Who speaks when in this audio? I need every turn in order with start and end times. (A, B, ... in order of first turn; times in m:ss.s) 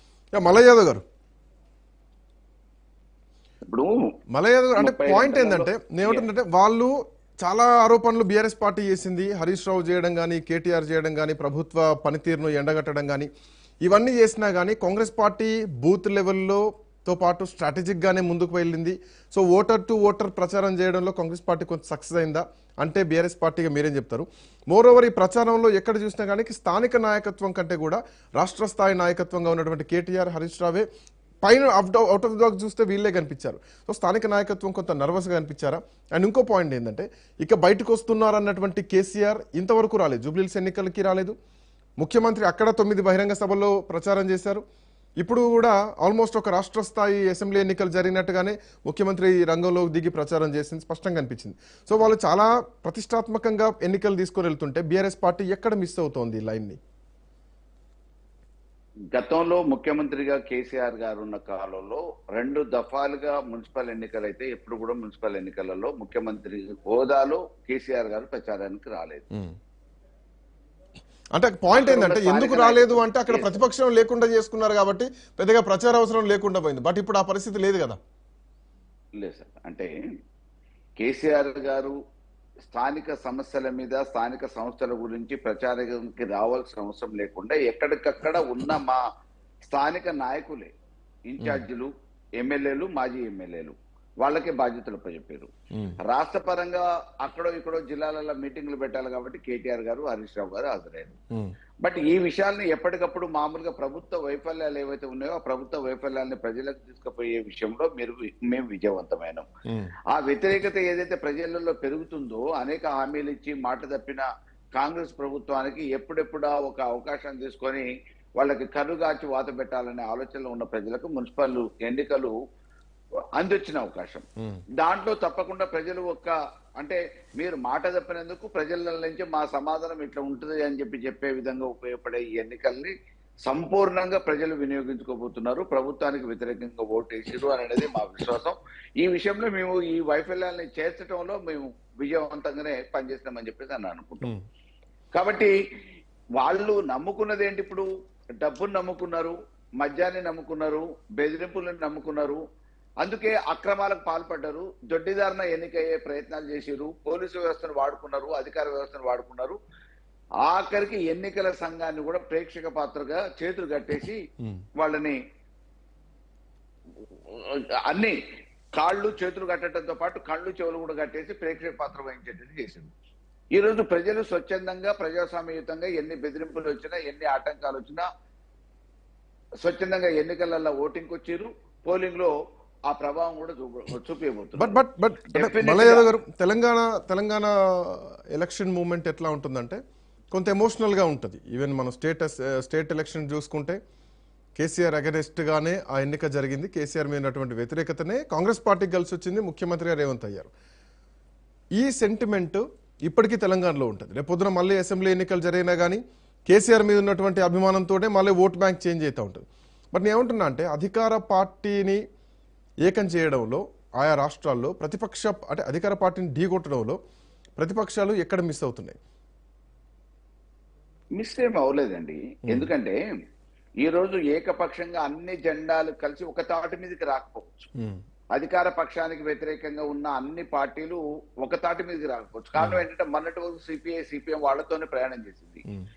0:00.3-0:01.0 A
0:03.7-0:04.1 B
0:04.3-0:06.9 A
0:04.8-0:06.3 B
0:07.4-0:13.3 A
0:13.8-0:30.9 A
0:31.4-0:41.3 A
0:42.0-0:44.6 A
0:45.2-0:56.8 A
0:59.1-1:09.2 B
1:11.4-1:18.0 A
1:11.7-1:13.6 B
1:19.2-1:19.9 B
1:21.0-1:21.9 B
1:22.7-1:29.0 B
1:29.7-1:30.7 B
1:31.3-1:31.9 B
1:32.4-1:35.5 B
1:35.7-1:36.0 A
1:36.0-1:41.2 B
1:41.8-1:49.4 B
1:49.7-1:49.9 A
1:50.1-1:54.2 B
1:54.8-1:57.9 B
1:58.4-2:02.3 B
2:03.4-2:04.2 B
2:04.8-2:12.9 B
2:13.5-2:24.3 B
2:25.2-2:25.5 B
2:26.4-2:27.8 B
2:28.4-2:32.4 B
2:33.0-2:39.6 B
2:40.4-2:44.2 B
2:44.8-2:45.2 B
2:47.3-2:48.2 B
2:48.8-2:52.9 B
2:53.5-2:58.1 B
2:59.6-3:02.3 B
3:02.9-3:04.8 B
3:04.5-3:09.8 A
3:05.3-3:06.1 B
3:10.3-3:13.8 A
3:14.6-3:20.5 A
3:21.8-3:32.0 A
3:32.9-3:37.0 A
3:37.6-3:39.0 A
3:41.2-3:42.9 B
3:43.8-3:47.6 B
3:48.3-3:55.6 B
3:52.6-3:52.8 A